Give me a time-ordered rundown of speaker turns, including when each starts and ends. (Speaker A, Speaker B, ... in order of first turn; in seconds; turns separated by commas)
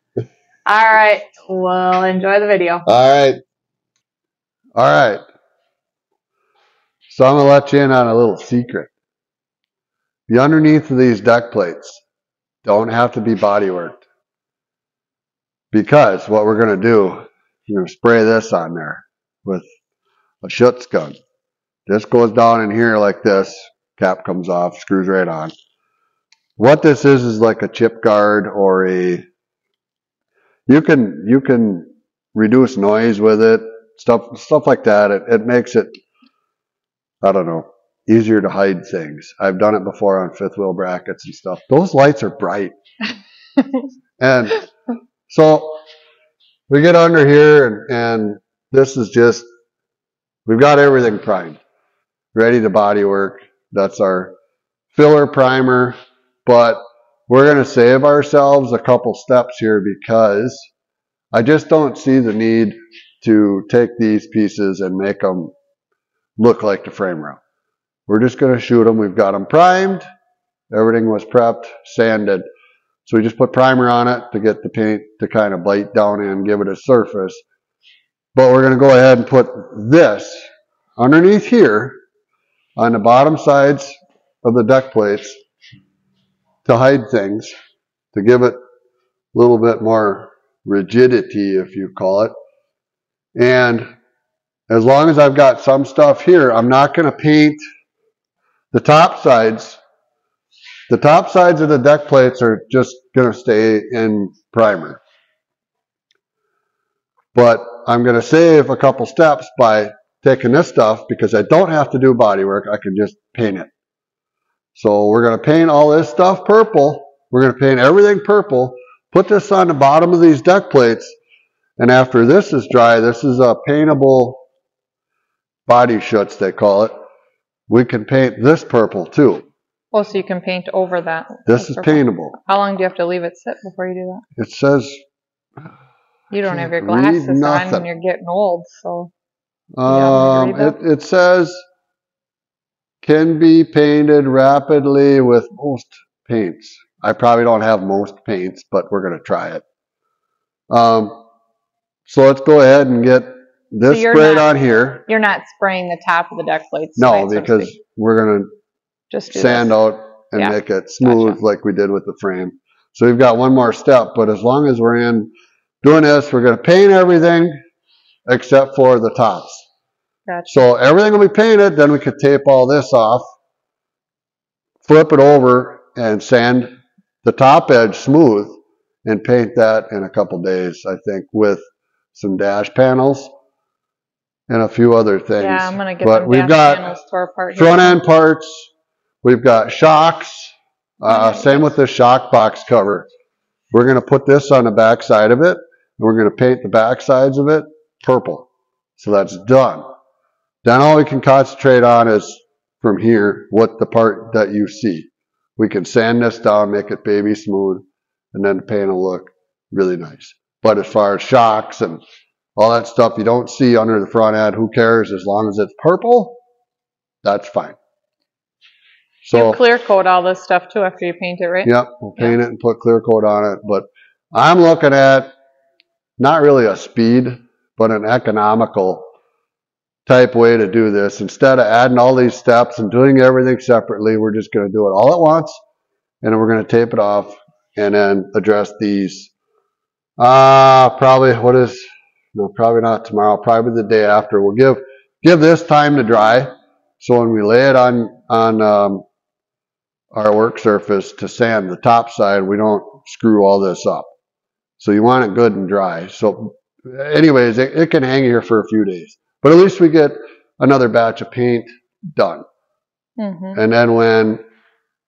Speaker A: 0.7-2.9, Speaker B: 2.9-3.4, Speaker B: 4.8-5.2, Speaker B: 7.1-8.9, Speaker B: 10.3-12.0, Speaker B: 12.7-14.0, Speaker B: 15.7-19.6, Speaker B: 20.4-21.2, Speaker B: 21.9-25.5, Speaker B: 26.6-29.2, Speaker B: 30.7-35.9, Speaker B: 37.2-42.7, Speaker B: 44.2-44.7, Speaker B: 45.3-45.8, Speaker B: 46.7-49.5, Speaker B: 50.5-51.6, Speaker B: 52.4-54.3, Speaker B: 54.9-60.7, Speaker B: 61.3-65.5, Speaker B: 66.4-67.4, Speaker B: 68.1-70.0, Speaker B: 70.7-72.4, Speaker B: 73.1-77.4, Speaker B: 78.3-80.4, Speaker B: 81.0-82.0, Speaker B: 82.8-85.4, Speaker B: 86.7-87.5, Speaker B: 88.1-88.6, Speaker B: 89.3-92.3, Speaker B: 93.4-93.9, Speaker B: 94.7-97.6, Speaker B: 98.7-99.8, Speaker B: 100.9-105.0, Speaker B: 107.3-113.7, Speaker B: 114.8-121.1, Speaker B: 121.8-124.4, Speaker B: 125.7-126.9, Speaker B: 127.7-129.5, Speaker A: 129.9-134.2, Speaker B: 131.5-132.4, Speaker B: 134.4-135.0, Speaker A: 136.3-139.1, Speaker B: 136.4-137.9, Speaker B: 139.8-141.6, Speaker A: 139.9-140.8, Speaker B: 143.0-149.6, Speaker B: 150.7-151.2, Speaker B: 152.1-155.0, Speaker A: 153.9-157.7, Speaker B: 157.0-158.5, Speaker A: 159.1-159.7, Speaker B: 159.3-165.3, Speaker A: 160.3-161.4, Speaker B: 165.8-167.5, Speaker B: 168.3-169.7, Speaker A: 170.3-170.6, Speaker B: 170.5-173.2, Speaker B: 174.8-176.7, Speaker B: 177.2-181.6, Speaker B: 182.2-183.3, Speaker B: 184.5-186.9, Speaker A: 185.4-188.0, Speaker B: 187.6-188.7, Speaker B: 189.2-193.1, Speaker A: 191.1-191.7, Speaker B: 193.7-199.8, Speaker B: 200.6-212.0, Speaker B: 212.6-216.4, Speaker B: 217.2-217.8, Speaker B: 219.2-219.6, Speaker A: 219.3-222.4, Speaker B: 221.7-225.3, Speaker B: 226.2-229.1, Speaker B: 230.1-235.6, Speaker B: 236.2-239.3, Speaker B: 240.2-241.8, Speaker B: 242.3-249.1, Speaker B: 250.1-254.1, Speaker B: 254.8-262.4, Speaker A: 263.2-263.6, Speaker B: 263.6-264.4